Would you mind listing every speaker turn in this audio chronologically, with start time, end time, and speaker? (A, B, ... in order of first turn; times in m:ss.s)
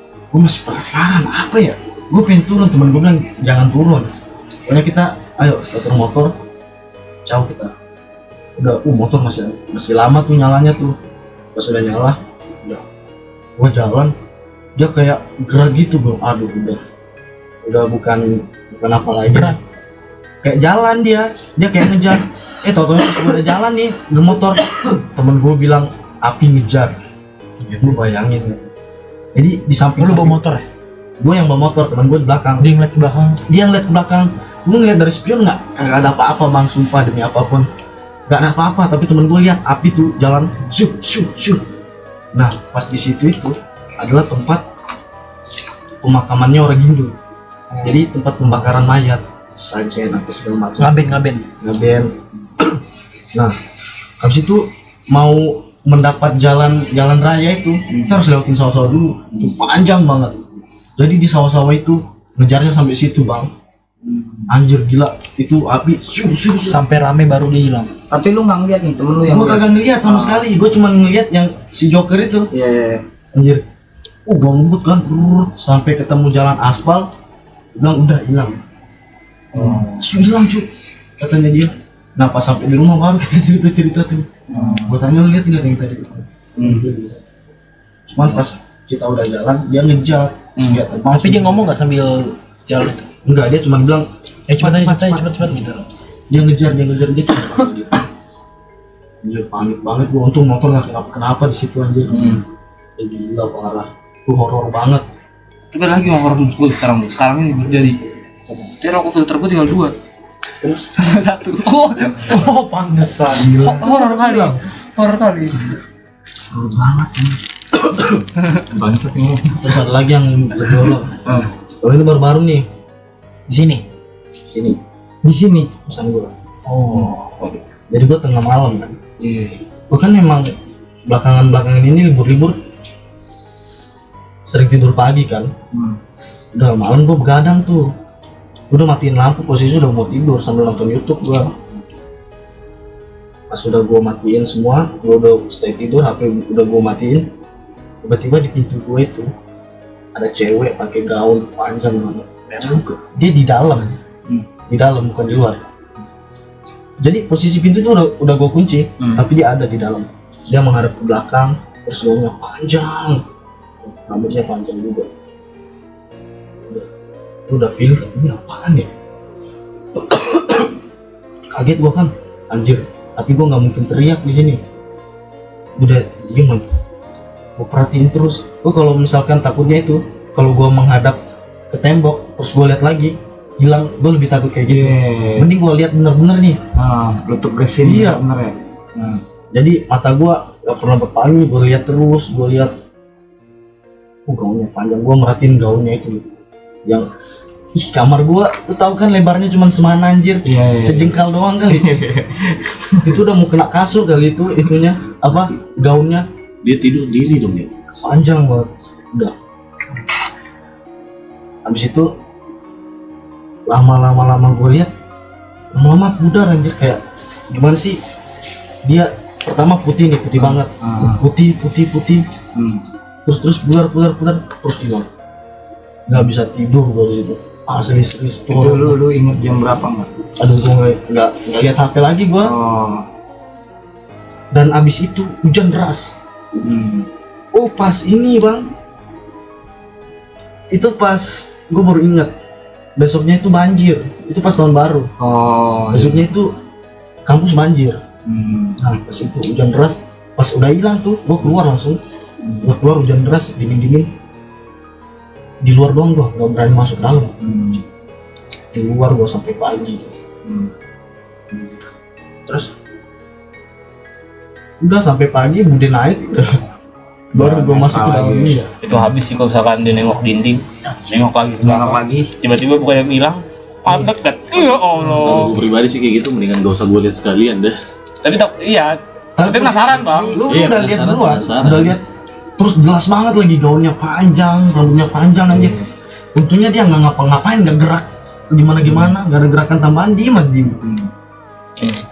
0:00.3-0:04.1 A
0:04.7-0:06.3 A
0:07.2-0:07.7 A
0:08.6-0:11.0 A
0:11.5-0:12.8 A
0:13.6-0:14.1 A
0:14.8-0:16.8 A
0:17.6-0:19.6 A
0:19.3-0:19.6 B
0:20.4-0:27.0 A
0:27.8-0:28.7 A
0:29.3-0:30.4 A
0:30.0-0:30.6 B
0:31.2-0:32.7 A
0:32.6-0:33.4 B
0:33.5-0:37.7 A
0:38.3-0:41.6 A
0:42.3-0:44.6 A
0:46.0-0:47.1 A
0:47.8-0:52.1 A
0:50.8-0:51.5 B
0:54.2-1:00.4 A
0:57.9-0:58.2 C
1:01.0-1:03.5 A
1:04.0-1:04.5 C
1:04.5-1:06.8 A
1:06.6-1:07.9 B
1:08.1-1:10.4 C
1:09.2-1:12.5 A
1:12.5-1:13.0 C
1:13.3-1:13.6 A
1:14.2-1:17.1 A
1:17.7-1:18.6 A
1:19.5-1:20.0 C
1:19.5-1:27.1 A
1:24.5-1:25.0 C
1:26.6-1:26.9 C
1:28.1-1:31.7 A
1:30.6-1:30.8 C
1:31.1-1:33.1 B
1:33.2-1:35.7 A
1:34.5-1:35.8 B
1:36.3-1:37.9 A
1:39.2-1:42.4 A
1:43.0-1:45.0 A
1:45.7-1:49.9 D
1:50.7-1:52.5 D
1:52.2-1:53.6 B
1:53.2-1:54.6 A
1:53.4-1:53.8 C
1:53.6-1:55.7 D
1:56.5-1:57.4 C
1:57.9-1:59.7 C
1:59.6-2:01.2 A
2:01.2-2:01.5 C
2:01.8-2:02.6 A
2:03.5-2:03.8 B
2:04.5-2:04.8 A
2:05.2-2:05.8 C
2:05.8-2:06.3 A
2:06.7-2:07.2 B
2:06.9-2:07.5 C
2:07.9-2:09.0 A
2:09.2-2:09.6 C
2:09.9-2:10.5 A
2:11.1-2:12.6 A
2:14.4-2:15.5 A
2:15.7-2:16.0 C
2:16.5-2:17.9 A
2:18.7-2:21.6 A
2:23.5-2:27.3 A
2:28.0-2:29.3 A
2:30.1-2:34.0 A
2:34.7-2:35.6 A
2:37.0-2:43.2 A
2:39.0-2:39.2 C
2:43.8-2:45.1 A
2:47.5-2:48.9 A
2:50.0-2:50.7 A
2:51.5-2:54.6 A
2:55.8-2:56.6 A
2:57.6-3:01.2 A
3:01.7-3:06.6 A
3:04.7-3:05.5 C
3:06.7-3:09.2 C
3:07.8-3:08.2 A
3:09.5-3:12.7 A
3:14.3-3:16.3 A
3:17.7-3:22.0 A
3:20.4-3:21.2 C
3:21.7-3:23.2 C
3:23.0-3:26.3 A
3:26.6-3:27.7 E
3:28.0-3:29.3 A
3:31.6-3:32.1 A
3:33.7-3:34.9 A
3:35.7-3:38.0 A
3:38.8-3:42.3 A
3:40.4-3:41.2 C
3:42.5-3:42.8 C
3:43.2-3:45.1 A
3:46.1-3:49.0 A
3:48.5-3:50.1 C
3:50.4-3:52.5 A
3:52.4-3:53.0 C
3:54.5-3:56.1 A
3:56.6-3:57.1 C
3:57.5-3:58.7 A
4:00.7-4:02.3 A
4:03.0-4:05.1 A
4:05.2-4:06.2 C
4:05.9-4:06.6 A
4:07.2-4:08.0 A
4:08.3-4:08.8 C
4:08.8-4:12.0 A
4:12.6-4:14.1 A
4:15.6-4:17.4 A
4:17.4-4:17.8 C
4:18.7-4:20.1 A
4:20.4-4:20.7 C
4:24.8-4:26.6 A
4:27.3-4:28.7 A
4:27.4-4:27.6 C
4:27.7-4:35.6 D
4:31.6-4:32.3 C
4:35.1-4:37.8 E
4:38.2-4:40.4 D
4:39.4-4:42.0 A
4:40.4-4:42.0 E
4:42.6-4:45.8 A
4:45.5-4:45.9 C
4:46.3-4:50.8 A
4:48.9-4:49.1 C
4:50.8-4:51.1 C